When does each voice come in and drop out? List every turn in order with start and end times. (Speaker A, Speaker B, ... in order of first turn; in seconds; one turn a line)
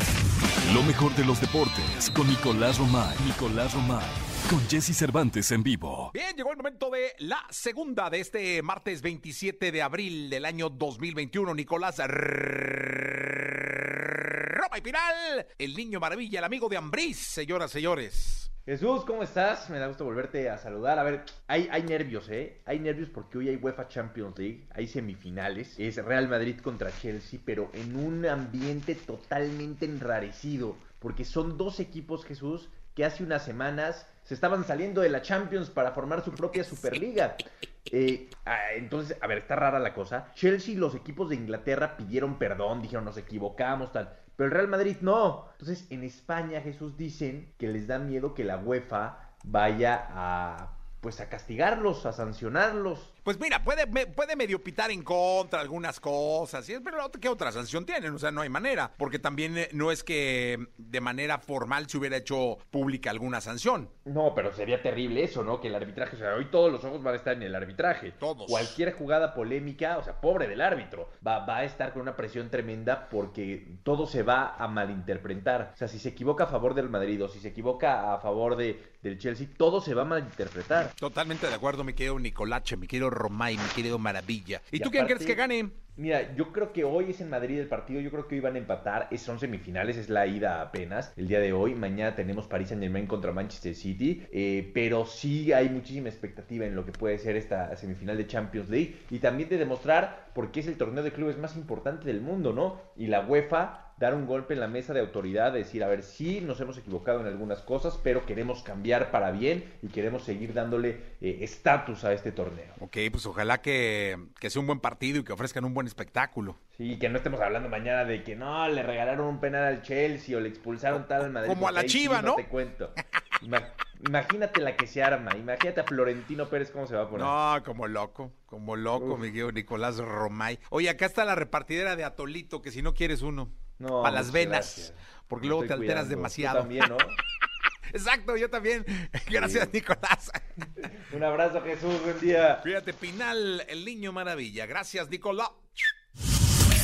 Speaker A: 0.6-6.1
Speaker B: 6.1-18.5
Speaker C: 18.6-53.1
Speaker B: 53.2-63.9
Speaker C: 64.0-80.9
Speaker B: 68.2-68.8
Speaker B: 81.0-85.8
Speaker C: 84.7-85.4
Speaker C: 86.0-112.8
Speaker B: 112.8-116.6
Speaker C: 116.7-127.4
Speaker B: 120.9-122.4
Speaker B: 127.1-136.9
Speaker C: 129.0-129.2
Speaker C: 133.8-137.2
Speaker B: 137.9-140.4
Speaker C: 139.3-139.7
Speaker C: 140.8-142.7
Speaker B: 142.6-145.7